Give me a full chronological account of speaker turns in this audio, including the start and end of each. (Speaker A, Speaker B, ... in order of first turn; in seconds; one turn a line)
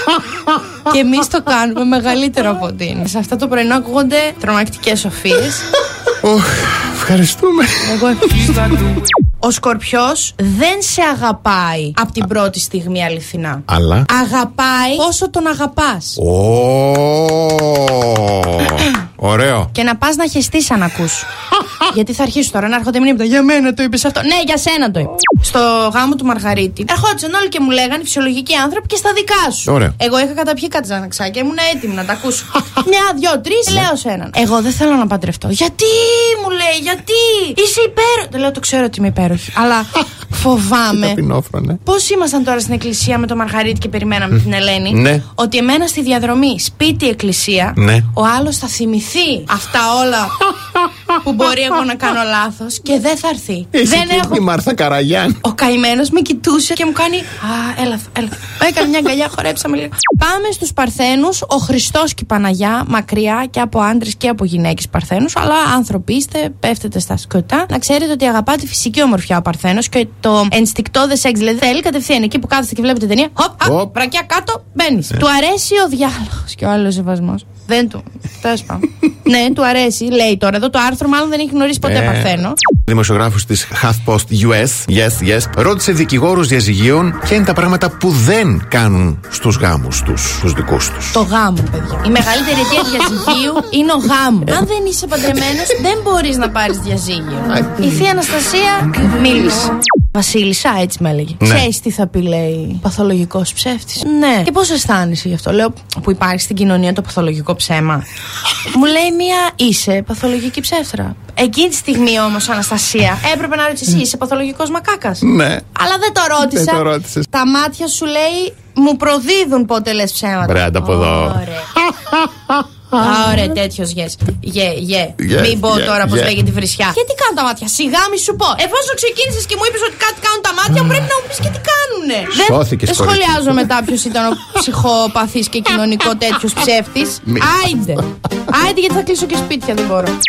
Speaker A: 0.8-5.7
Speaker B: 6.2-8.5
Speaker A: 7.8-8.5
Speaker A: 9.4-16.2
Speaker B: 13.7-14.1
Speaker B: 16.2-19.7
Speaker A: 19.7-21.3
Speaker A: 21.8-41.2
Speaker B: 29.7-29.9
Speaker B: 41.0-41.8
Speaker A: 41.8-50.4
Speaker B: 44.9-45.2
Speaker B: 47.8-48.1
Speaker A: 51.2-54.4
Speaker B: 53.7-55.4
Speaker A: 55.4-82.6
Speaker B: 73.6-73.9
Speaker B: 81.8-91.2
Speaker A: 91.1-108.0
Speaker B: 97.5-98.0
Speaker B: 101.4-101.7
Speaker A: 108.7-115.2
Speaker B: 115.2-115.6
Speaker A: 115.7-121.7
Speaker B: 116.4-117.3
Speaker B: 120.4-123.4
Speaker A: 122.9-140.2
Speaker B: 125.2-126.3
Speaker B: 132.3-133.4